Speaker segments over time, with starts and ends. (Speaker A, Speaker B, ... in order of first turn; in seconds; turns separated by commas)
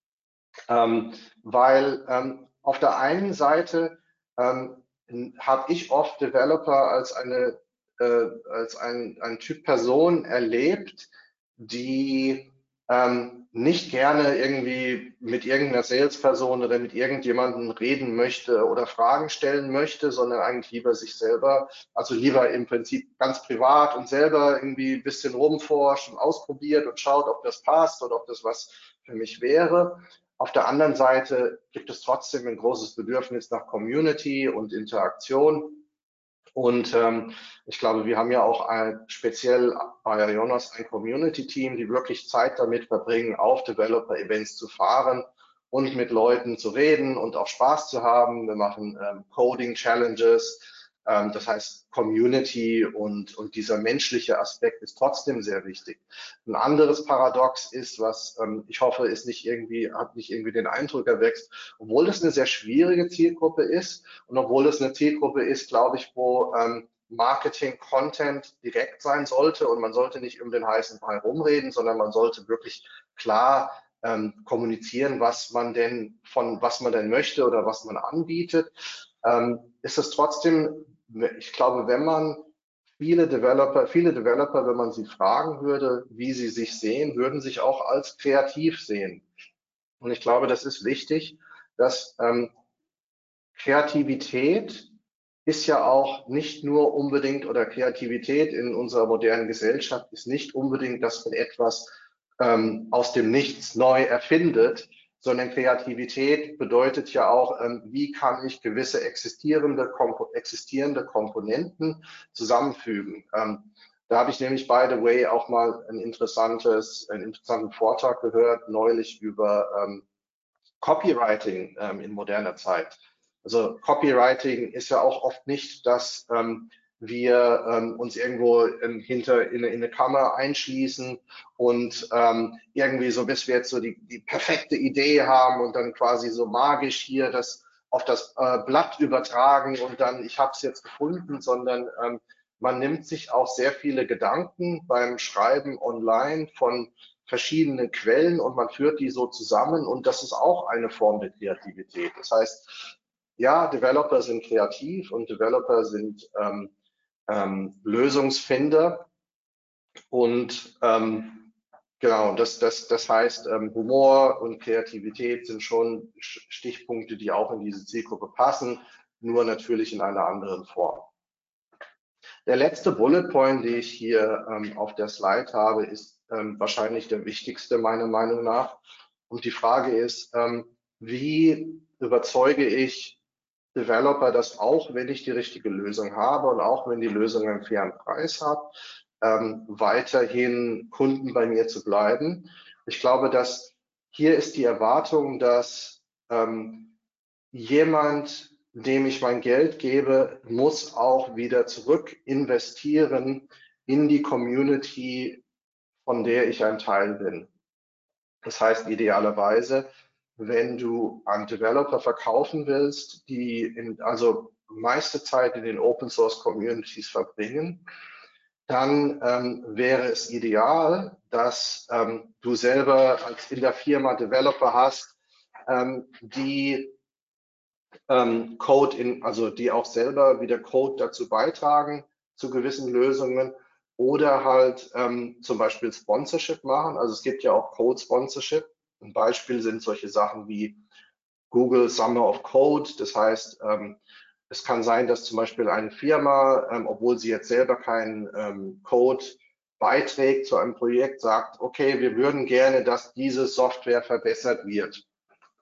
Speaker A: 0.7-35.8, Speaker A: 36.5-78.7, Speaker A: 79.2-82.5, Speaker A: 83.0-89.2, Speaker A: 90.0-92.5, Speaker A: 93.5-94.9, Speaker A: 95.5-120.0, Speaker A: 120.8-156.7, Speaker A: 157.3-159.1, Speaker A: 160.1-171.1, Speaker A: 172.4-183.2, Speaker A: 183.7-196.9, Speaker A: 197.5-205.4, Speaker A: 206.1-207.5, Speaker A: 208.4-217.8, Speaker A: 218.7-225.2, Speaker A: 225.7-226.9, Speaker A: 228.1-240.8, Speaker A: 241.5-255.0